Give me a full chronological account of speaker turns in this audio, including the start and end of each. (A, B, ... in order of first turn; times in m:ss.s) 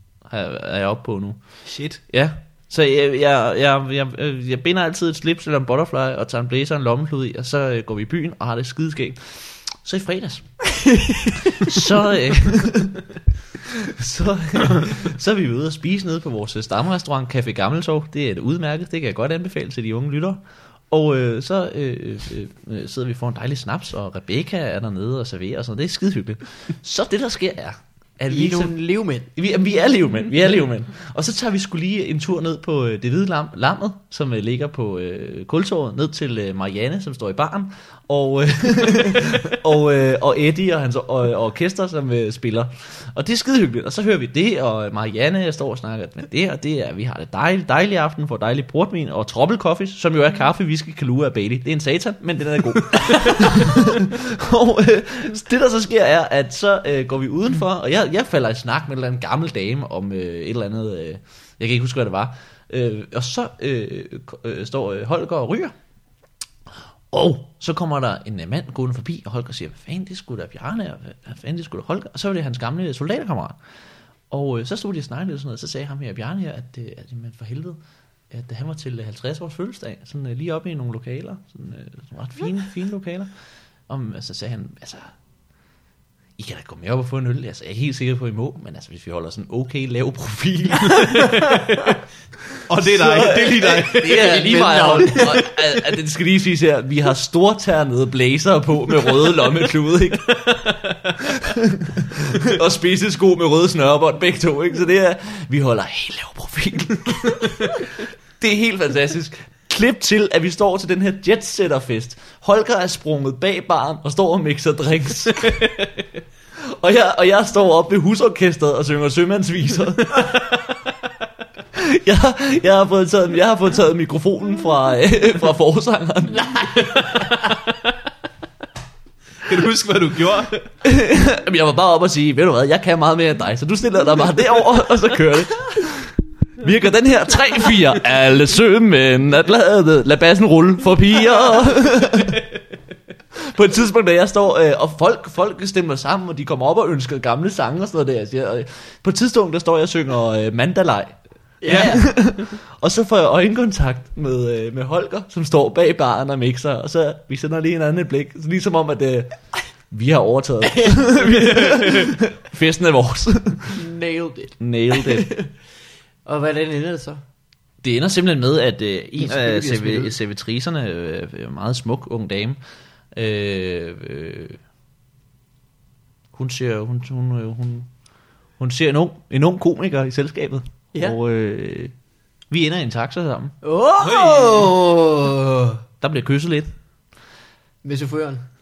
0:00.3-0:01.4 A
0:01.6-0:02.0 B
0:02.1-0:10.6 A
0:10.9-0:11.4 C
0:11.6-0:13.0 A
0:13.9-0:28.8 A
0:28.3-0:29.3 C
0:29.3-1:05.7 A
1:07.1-1:13.6 A
1:14.3-1:17.8 A
1:18.3-1:23.3 A
1:23.9-1:25.1 A
1:26.4-1:31.3 A
1:32.7-1:34.4 B
1:32.8-1:40.5 A
1:33.9-1:35.5 C
1:41.3-1:55.6 A
1:56.7-2:00.5 A
2:01.8-2:06.9 A
2:06.3-2:07.5 C
2:09.4-2:10.7 B
2:10.8-2:22.4 A
2:23.4-2:39.4 A
2:31.6-2:32.0 C
2:31.7-2:32.0 B
2:39.9-2:43.8 A
2:40.7-2:41.8 C
2:43.7-2:45.5 C
2:44.6-2:45.3 A
2:46.2-2:47.2 C
2:47.8-2:52.6 A
2:49.2-2:50.2 C
2:53.1-2:54.6 A
2:56.3-2:57.9 A
2:58.6-3:01.9 A
3:02.5-3:03.6 A
3:03.6-3:05.8 C
3:04.0-3:04.7 B
3:06.0-3:06.7 A
3:07.8-3:08.4 C